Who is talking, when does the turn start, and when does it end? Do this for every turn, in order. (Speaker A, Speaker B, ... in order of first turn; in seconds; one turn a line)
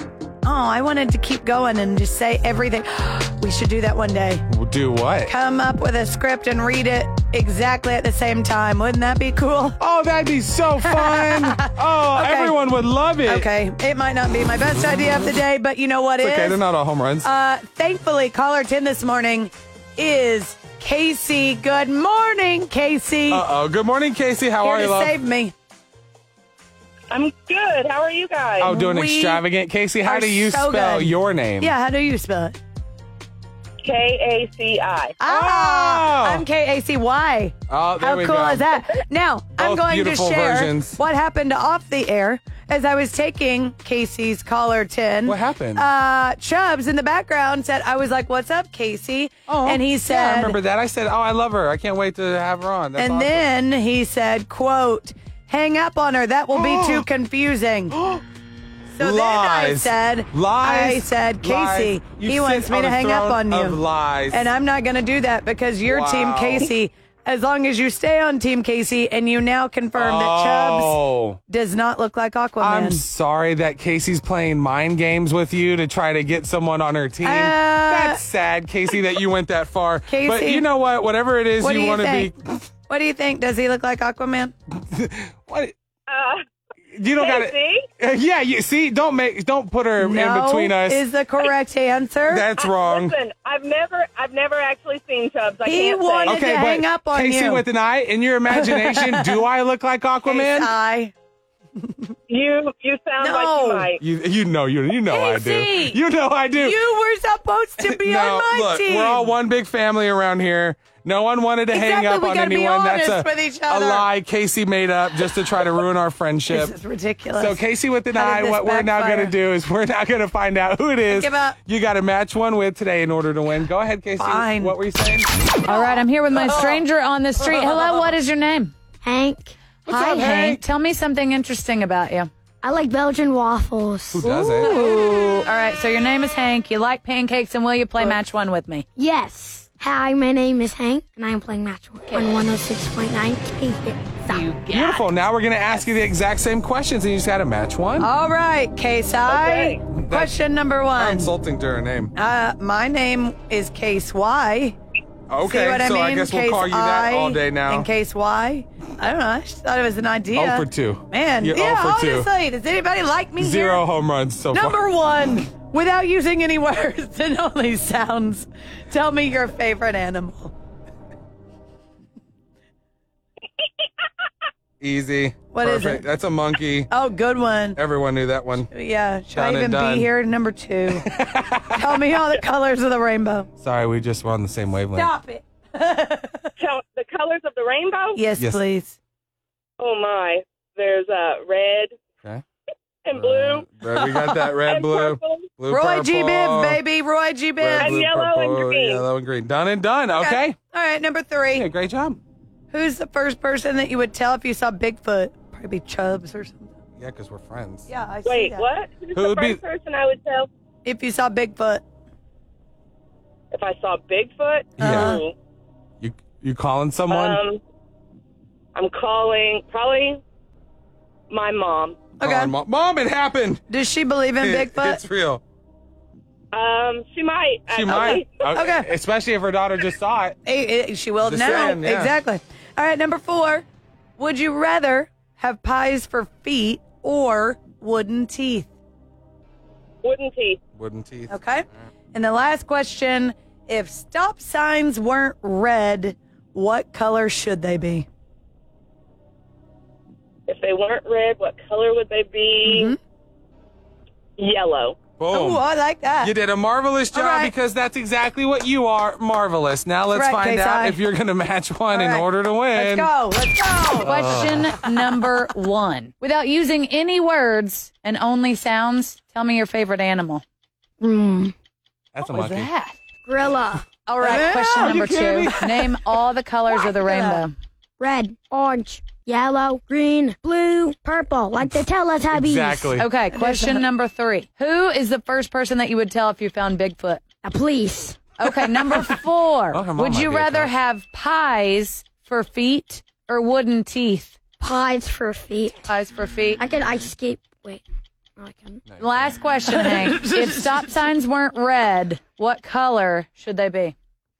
Speaker A: 0.4-4.4
Speaker B: 4.5-5.3
Speaker A: 5.2-9.8
Speaker B: 9.8-13.5
Speaker A: 10.8-12.5
Speaker A: 13.2-16.6
Speaker B: 16.2-17.3
Speaker A: 17.2-23.4
Speaker B: 23.3-25.1
Speaker A: 24.6-25.5
Speaker C: 27.1-28.7
Speaker B: 28.6-31.7
Speaker A: 28.6-29.4
Speaker A: 30.0-32.6
Speaker C: 33.8-35.1
Speaker A: 35.2-50.6
Speaker B: 35.2-36.4
Speaker B: 37.7-38.8
Speaker B: 39.6-41.0
Speaker B: 45.2-45.9
Speaker B: 49.5-53.5
Speaker A: 53.0-58.0
Speaker B: 56.5-57.0
Speaker B: 57.9-58.2
Speaker A: 59.0-73.0
Speaker B: 59.0-64.5
Speaker B: 65.8-66.7
Speaker B: 70.0-71.4
Speaker B: 72.6-82.6
Speaker A: 77.2-78.2
Speaker A: 80.1-80.7
Speaker A: 81.6-82.3
Speaker A: 82.9-84.5
Speaker B: 84.9-85.7
Speaker C: 86.1-86.4
Speaker B: 86.9-91.0
Speaker C: 87.2-87.8
Speaker A: 90.0-92.5
Speaker B: 92.3-93.1
Speaker C: 92.5-96.4
Speaker A: 95.6-97.6
Speaker B: 96.2-100.7
Speaker A: 98.5-99.4
Speaker A: 100.2-101.1
Speaker C: 102.3-104.0
Speaker A: 103.2-103.9
Speaker B: 104.0-106.8
Speaker A: 105.1-106.0
Speaker A: 106.6-109.3
Speaker B: 107.8-116.7
Speaker A: 111.7-114.1
Speaker A: 116.5-117.6
Speaker B: 117.4-125.3
Speaker A: 118.1-119.3
Speaker A: 121.1-121.6
Speaker A: 124.2-124.8
Speaker D: 125.7-128.7
Speaker B: 126.3-126.8
Speaker E: 129.0-129.6
Speaker B: 129.8-130.6
Speaker D: 129.9-132.3
Speaker E: 132.6-134.3
Speaker B: 134.1-134.7
Speaker D: 134.2-138.8
Speaker E: 138.9-144.4
Speaker D: 144.3-145.1
Speaker B: 144.7-148.1
Speaker A: 148.0-151.3
Speaker C: 149.3-149.8
Speaker B: 149.9-150.4
Speaker B: 150.9-152.1
Speaker A: 152.1-154.8
Speaker B: 155.3-157.9
Speaker A: 155.4-163.8
Speaker B: 160.3-162.3
Speaker B: 163.4-165.3
Speaker A: 164.5-170.5
Speaker B: 174.8-176.9
Speaker A: 175.5-176.1
Speaker A: 176.9-177.8
Speaker B: 177.8-178.7
Speaker A: 178.7-181.1
Speaker B: 179.3-180.1
Speaker B: 180.9-182.0
Speaker A: 181.7-183.5
Speaker B: 183.6-185.1
Speaker A: 184.9-186.5
Speaker C: 186.6-188.2
Speaker A: 188.1-188.9
Speaker C: 189.8-192.0
Speaker C: 193.0-193.7
Speaker B: 193.1-196.8
Speaker A: 193.9-194.5
Speaker C: 194.7-195.5
Speaker A: 195.7-198.1
Speaker B: 197.6-200.6
Speaker C: 197.8-199.1
Speaker A: 200.2-201.7
Speaker B: 201.5-202.2
Speaker A: 202.7-206.7
Speaker B: 207.0-207.9
Speaker A: 207.9-208.7
Speaker C: 208.2-210.5
Speaker B: 209.1-209.6
Speaker A: 210.8-211.8
Speaker C: 213.5-215.3
Speaker B: 214.8-215.2
Speaker A: 214.8-215.2
Speaker B: 216.0-217.4
Speaker C: 217.1-217.6
Speaker C: 218.7-220.2
Speaker C: 221.3-222.0
Speaker A: 222.2-222.5
Speaker B: 222.2-223.6
Speaker A: 223.7-225.0
Speaker B: 224.4-225.4
Speaker C: 226.5-228.3
Speaker B: 227.7-230.4
Speaker A: 228.5-228.9
Speaker A: 230.4-233.7
Speaker B: 231.2-232.2
Speaker A: 234.2-238.7
Speaker C: 240.0-240.6
Speaker B: 240.8-241.3
Speaker A: 241.3-248.1
Speaker C: 250.5-252.9
Speaker A: 252.6-253.0
Speaker C: 254.4-255.0
Speaker B: 255.2-255.6
Speaker A: 255.3-256.3
Speaker B: 256.2-263.1
Speaker A: 257.1-257.5
Speaker A: 260.1-261.0
Speaker A: 261.9-264.2
Speaker D: 264.0-270.4
Speaker B: 264.0-264.7
Speaker E: 271.0-271.5
Speaker B: 272.1-272.7
Speaker D: 272.3-273.0
Speaker E: 273.2-273.9
Speaker D: 274.1-277.5
Speaker A: 274.2-274.6
Speaker B: 274.2-276.0
Speaker A: 276.9-277.4
Speaker E: 278.0-283.0
Speaker B: 282.3-283.1
Speaker D: 283.0-287.2
Speaker A: 283.3-283.9
Speaker E: 287.4-288.3
Speaker D: 288.4-294.4
Speaker B: 289.7-290.7
Speaker E: 294.6-295.9
Speaker D: 295.9-296.6
Speaker E: 296.6-297.8
Speaker E: 298.4-298.8
Speaker B: 298.9-299.3
Speaker D: 299.0-303.9
Speaker A: 299.7-300.6